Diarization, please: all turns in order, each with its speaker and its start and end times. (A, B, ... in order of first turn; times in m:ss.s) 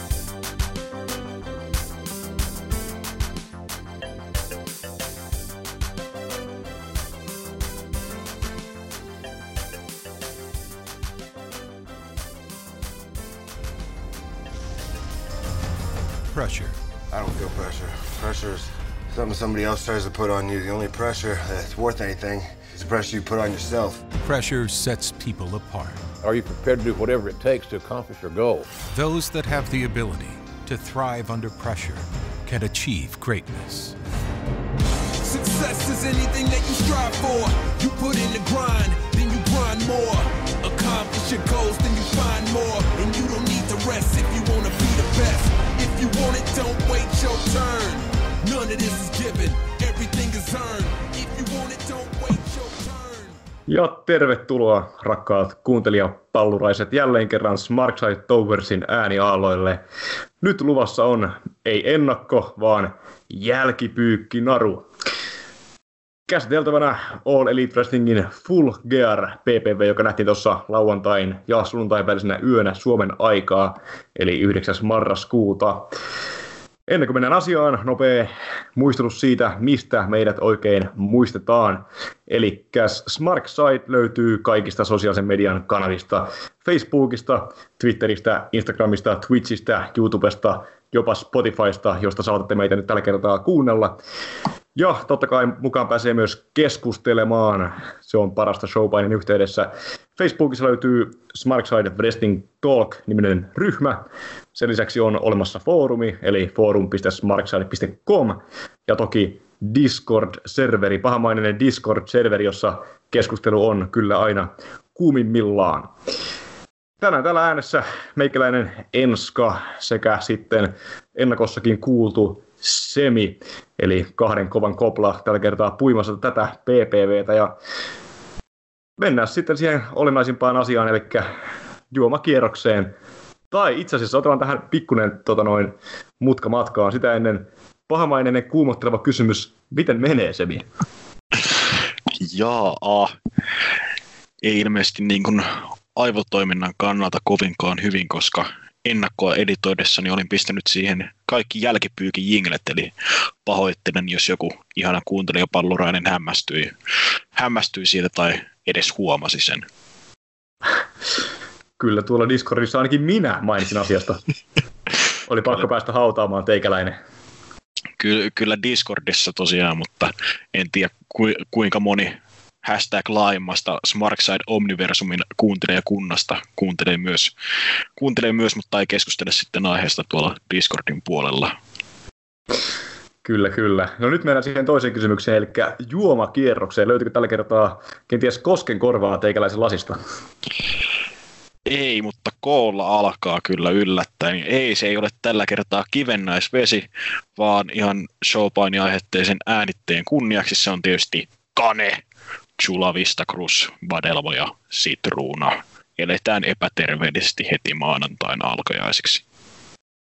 0:16.3-0:16.8 A
0:17.1-0:24.0 B
0:24.2-0:26.1 A
0:26.2-0:28.7 C
0:28.9-0:34.0 A
0:35.2-0:53.4 D
0:53.7-0:59.8 E
1:00.4-1:04.9 E
1:06.3-1:15.9 E
1:16.9-1:34.0 E
1:34.8-1:44.0 E
1:44.6-1:55.9 E
1:57.0-2:07.5 E
2:09.0-2:11.3 E
2:11.9-2:12.9 E
2:13.5-2:20.6 E
2:22.2-2:23.1 F
2:24.4-2:32.9 F
2:33.4-2:36.7 F
2:37.3-2:39.6 F
2:41.8-2:44.2 E
2:45.3-2:47.0 E
2:48.0-2:57.3 F
2:58.0-3:01.5 F
3:03.2-3:10.0 E
3:11.7-3:22.0 F
3:22.6-3:29.2 F